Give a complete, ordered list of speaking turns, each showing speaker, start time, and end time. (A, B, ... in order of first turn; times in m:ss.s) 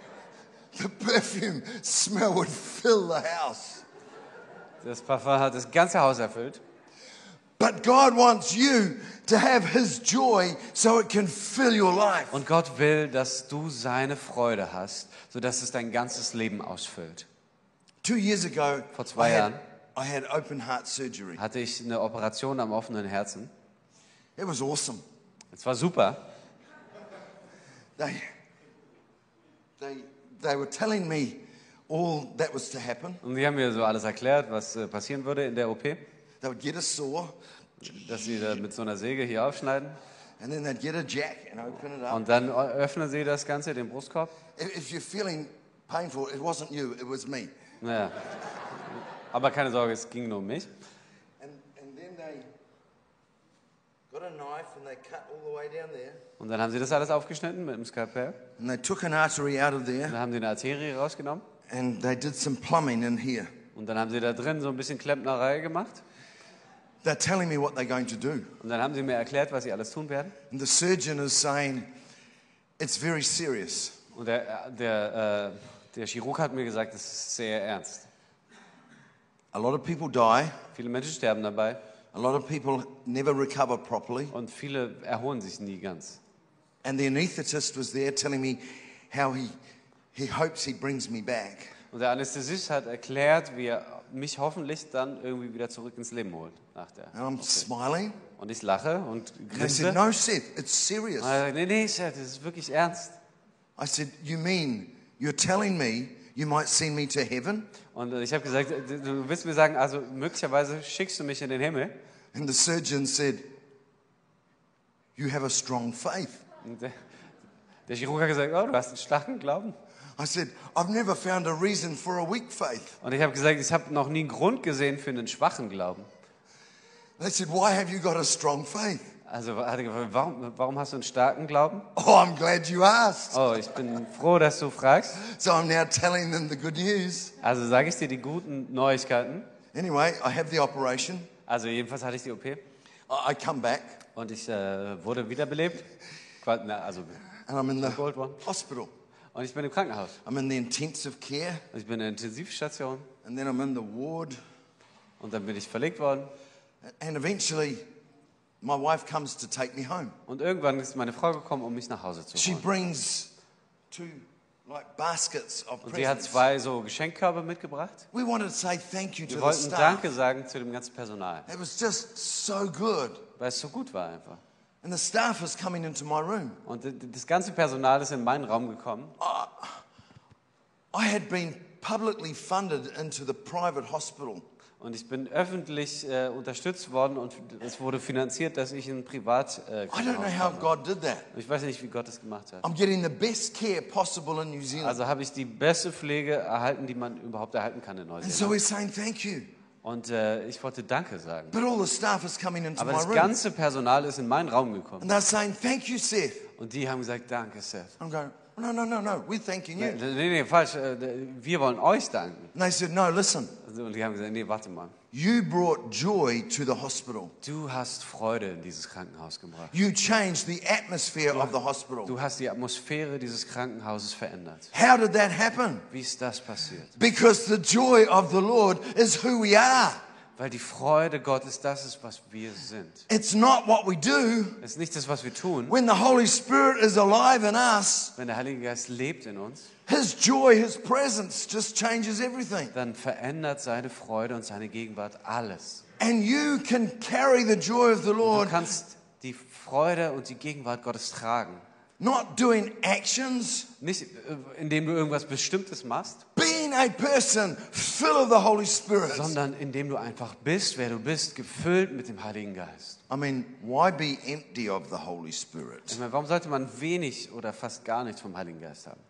0:00.7-0:03.8 A
0:04.8-0:06.6 B
0:07.6-0:12.4 A
0:12.3-0:17.3 B
0:18.0-0:21.4 A
0:18.9-0:19.6 B
0:21.4-0:23.5 B
0:24.4-0:25.0 A
0:25.5-0:26.2 B
0:28.0-0:28.2 A
0:29.8-0:33.2 A
0:33.2-0:36.0 B
0:36.4-0:37.4 A
0:37.8-0:40.0 B
0:40.4-0:42.2 A
0:42.1-0:44.3 B
0:44.6-0:47.5 A
0:47.8-0:48.2 B
0:48.7-0:50.7 B
0:51.4-0:52.5 A
0:54.1-0:56.2 A
0:56.4-0:58.4 B
0:58.6-1:00.2 A
1:00.1-1:01.4 B
1:01.7-1:03.5 A
1:03.7-1:06.0 B
1:07.0-1:08.5 A
1:08.6-1:10.4 B
1:10.5-1:11.9 A
1:12.8-1:14.0 A
1:14.1-1:18.1 B
1:19.5-1:20.6 A
1:20.7-1:21.8 B
1:22.1-1:24.3 A
1:24.3-1:26.2 B
1:26.8-1:29.5 A
1:30.1-1:31.7 A
1:31.9-1:37.7 B
1:37.1-1:38.2 A
1:38.4-1:40.0 B
1:39.5-1:41.4 A
1:41.2-1:43.1 B
1:43.8-1:47.7 A
1:47.9-1:52.0 B
1:52.3-1:53.5 A
1:55.2-1:56.4 A
1:56.6-1:57.1 B
1:57.9-1:59.8 B
2:00.2-2:02.9 A
2:03.0-2:06.1 B
2:07.2-2:09.1 A
2:09.3-2:11.9 B
2:11.9-2:13.4 A
2:13.3-2:15.2 B
2:15.2-2:17.3 A
2:17.4-2:19.5 B
2:19.7-2:21.3 A
2:21.5-2:22.6 B
2:23.1-2:24.0 A
2:24.1-2:25.9 B
2:26.4-2:27.2 B
2:27.4-2:28.9 A
2:27.8-2:28.4 B
2:29.3-2:30.2 B
2:30.2-2:31.6 A
2:31.7-2:33.1 B
2:33.2-2:34.4 A
2:35.2-2:36.3 B
2:36.9-2:37.8 A
2:38.6-2:40.1 A
2:40.3-2:42.7 B
2:42.3-2:43.3 A
2:43.9-2:46.4 A
2:45.8-2:48.0 B
2:48.1-2:50.1 A
2:49.3-2:51.5 B
2:51.5-2:53.2 A
2:53.4-2:54.4 B
2:54.8-2:56.6 A
2:56.6-2:59.2 B
2:59.2-2:59.8 A
3:00.9-3:04.4 A
3:04.8-3:10.7 B
3:09.9-3:11.3 A
3:11.3-3:12.6 B
3:12.6-3:15.0 A
3:14.8-3:18.6 B
3:18.2-3:19.5 A
3:19.8-3:21.6 B
3:21.5-3:23.3 A
3:22.8-3:25.1 B
3:25.0-3:26.4 A
3:26.6-3:28.0 B
3:28.0-3:30.0 A
3:29.8-3:32.5 B
3:32.5-3:33.5 A
3:33.6-3:34.9 B
3:35.1-3:37.3 A
3:37.4-3:39.7 B
3:39.7-3:42.1 A
3:41.3-3:41.5 B
3:42.0-3:44.7 B
3:44.7-3:45.9 A
3:45.9-3:46.9 B
3:47.0-3:50.0 A
3:50.4-3:53.0 B
3:53.1-3:54.6 A
3:54.6-3:55.8 B
3:55.7-3:58.1 A
3:58.2-3:59.7 B
3:59.9-4:02.7 A
4:02.7-4:05.8 B
4:06.0-4:08.6 A
4:08.2-4:11.6 B
4:12.0-4:13.7 A
4:13.8-4:16.2 B
4:16.4-4:19.4 A
4:19.1-4:23.0 B
4:23.1-4:26.0 A
4:25.9-4:29.0 B